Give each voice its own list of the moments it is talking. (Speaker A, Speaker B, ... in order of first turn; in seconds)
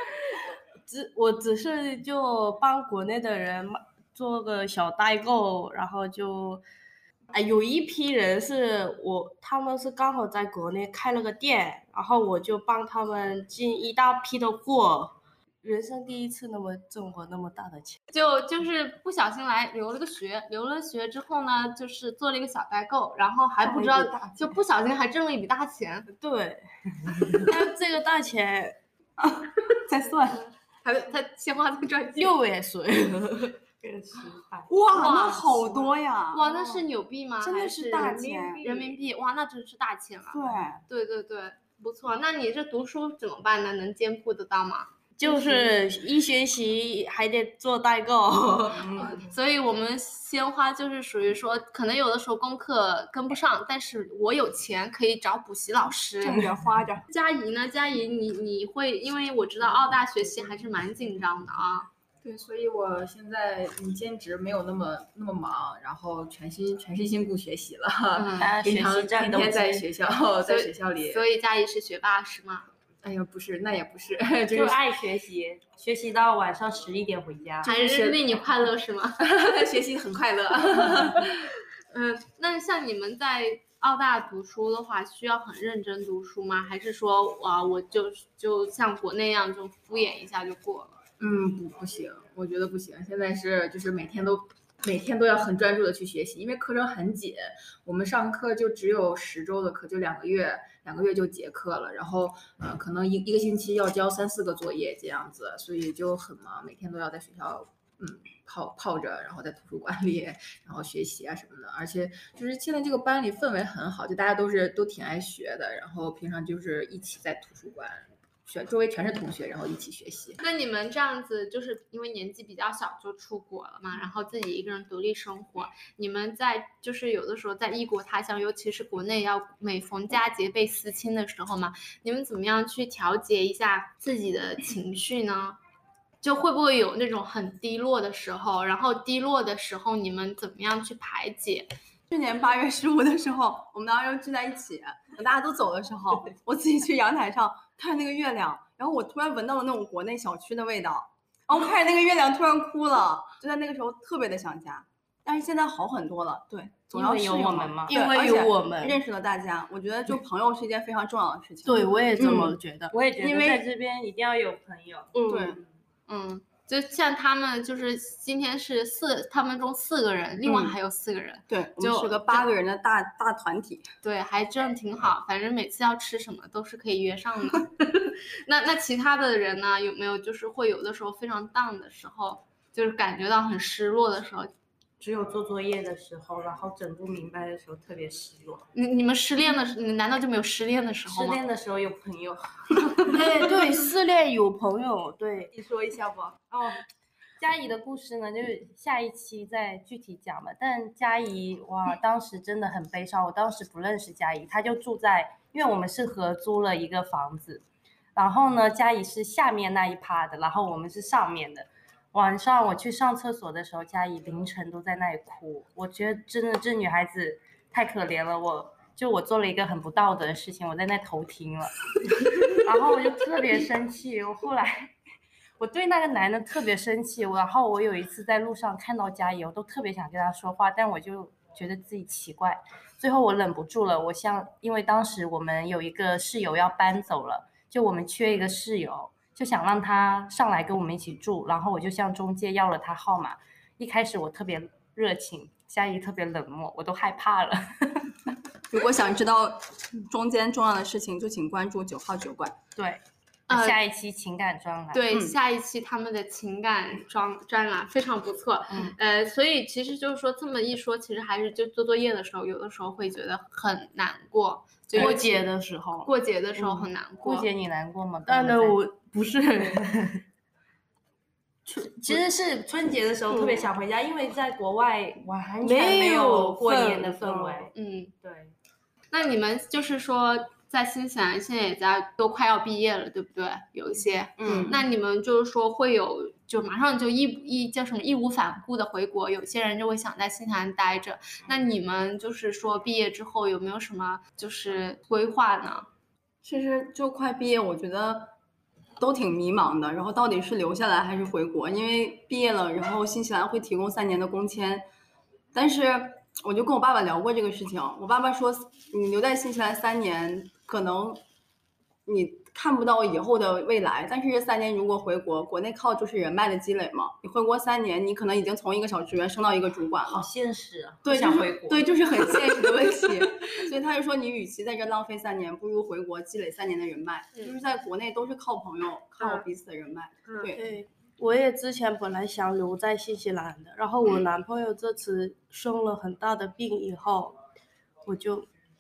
Speaker A: 0.9-6.6, 7.3-18.0, 26.1-26.6, 27.4-28.8, 32.2-33.6, 45.2-49.1, 157.9-159.0, 161.6-162.9, 165.1-165.6, 193.1-195.5, 264.9-266.1, 268.2-270.1, 273.3-273.7, 275.6-277.7, 330.5-337.4, 338.0-338.5
Speaker B: 18.1-26.1, 30.8-32.4, 34.9-45.7, 49.0-56.5, 57.1-61.9, 68.1-68.5, 70.4-72.7, 77.6-79.2, 81.2-91.0, 120.4-135.6, 136.2-141.7, 166.1-172.5, 174.0-184.5, 188.7-191.4, 253.5-253.8, 254.9-265.4, 266.0-267.5, 277.7-278.1, 279.1-295.9, 329.2-329.4
Speaker C: 27.1-27.5, 33.8-34.7, 68.4-69.8, 74.5-77.7, 156.9-158.0, 162.3-165.7, 185.0-188.6, 191.1-193.5, 195.5-196.8, 197.4-207.6, 208.1-221.7, 222.3-224.9, 225.6-248.1, 252.8-255.1, 266.6-268.8, 271.6-278.5, 284.4-284.8, 320.1-321.9
Speaker D: 29.2-30.4, 34.7-36.8, 37.4-38.7, 40.3-40.8, 56.2-57.0, 142.1-162.5, 163.2-163.6, 165.3-165.6, 170.4-170.7, 171.5-173.9, 248.7-252.6, 284.4-284.8, 296.4-298.3, 299.0-304.8, 305.5-311.2, 312.1-320.2, 321.0-330.6
Speaker E: 62.2-71.2, 73.0-74.8, 77.6-78.2, 79.2-81.5, 91.2-120.4